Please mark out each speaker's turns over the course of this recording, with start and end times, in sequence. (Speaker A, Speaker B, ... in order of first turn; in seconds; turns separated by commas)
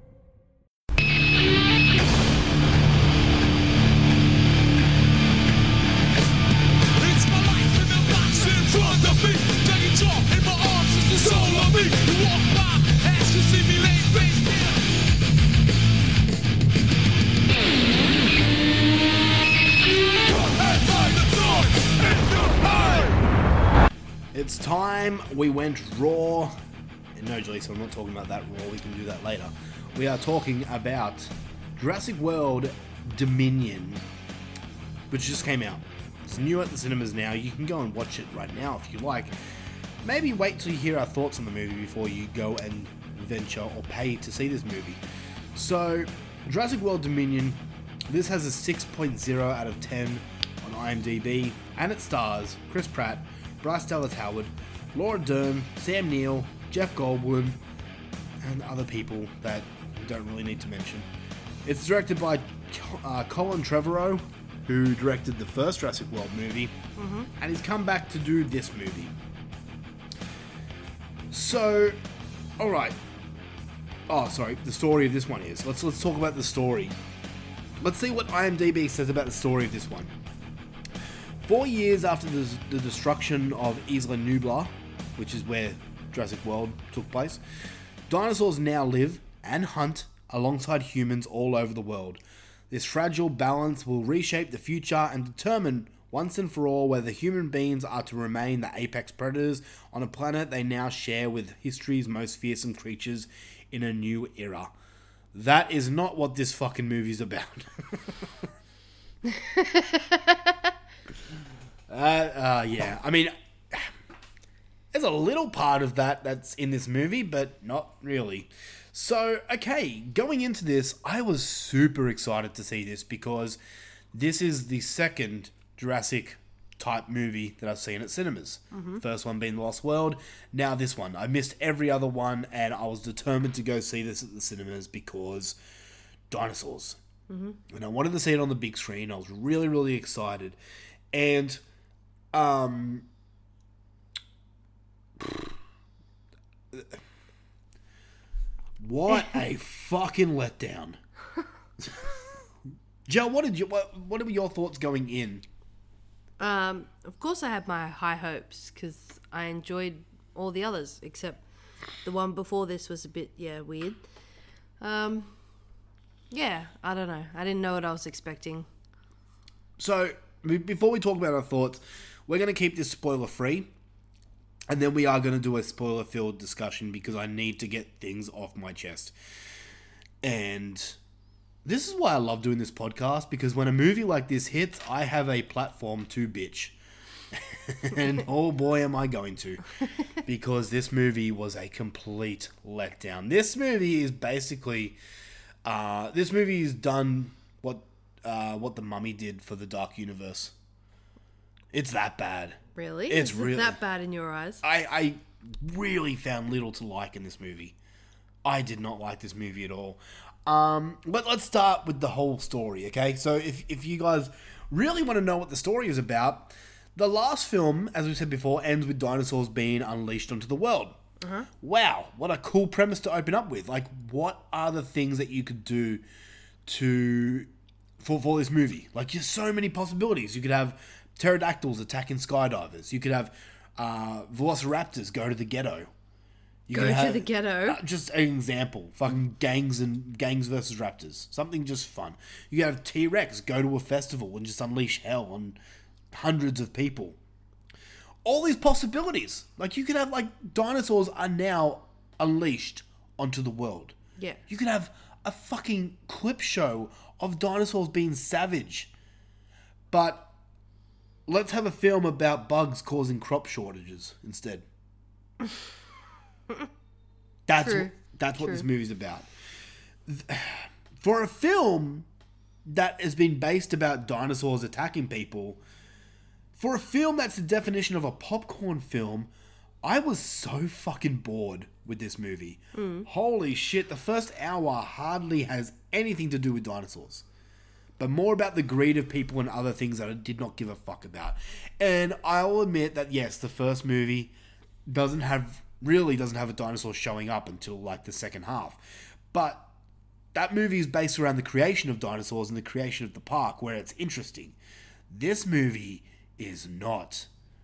Speaker A: 6.9-14.9, Speaker A: 20.2-23.2, Speaker B: 24.3-26.5, Speaker B: 27.1-34.0, Speaker B: 35.1-39.3, Speaker B: 40.0-45.0, Speaker B: 45.5-57.6, Speaker B: 58.4-61.1, Speaker B: 61.6-66.7, Speaker C: 67.0-67.3, Speaker B: 67.4-69.1, Speaker B: 71.3-72.0, Speaker B: 72.6-73.0, Speaker B: 74.1-77.0, Speaker B: 77.8-80.1, Speaker B: 81.4-87.4, Speaker B: 88.1-104.7, Speaker B: 105.3-108.3, Speaker C: 109.3-110.5, Speaker B: 111.9-113.9, Speaker B: 114.9-123.6, Speaker B: 124.1-135.6, Speaker C: 128.7-129.0, Speaker B: 136.3-137.0, Speaker C: 137.3-137.6, Speaker B: 137.7-140.6, Speaker B: 141.1-141.6, Speaker B: 142.3-143.1, Speaker B: 145.2-145.5, Speaker B: 146.7-147.0, Speaker B: 148.8-151.0, Speaker B: 153.1-155.4, Speaker C: 156.4-161.4, Speaker C: 162.0-164.0, Speaker C: 164.8-165.4, Speaker C: 166.3-168.7, Speaker B: 169.8-173.7, Speaker B: 174.7-179.1, Speaker B: 180.2-181.0, Speaker B: 181.6-186.8, Speaker B: 187.3-189.6, Speaker B: 190.2-195.0, Speaker B: 195.6-200.5, Speaker B: 201.7-203.8, Speaker C: 202.7-204.6, Speaker B: 204.6-207.8, Speaker B: 208.4-221.0, Speaker C: 221.2-221.5, Speaker B: 221.6-226.0, Speaker B: 226.6-227.5, Speaker B: 228.0-235.9, Speaker B: 236.7-245.6, Speaker C: 236.7-237.8, Speaker B: 246.1-247.2, Speaker B: 248.2-253.9, Speaker B: 254.5-258.9, Speaker B: 259.9-260.3, Speaker B: 261.3-264.6, Speaker B: 267.5-269.3, Speaker C: 267.6-268.6, Speaker B: 270.1-272.1, Speaker B: 272.6-275.6, Speaker B: 276.6-279.3, Speaker B: 279.8-287.2, Speaker C: 282.7-283.1, Speaker B: 288.0-294.3, Speaker B: 294.9-299.7, Speaker B: 300.3-304.6, Speaker B: 305.1-307.3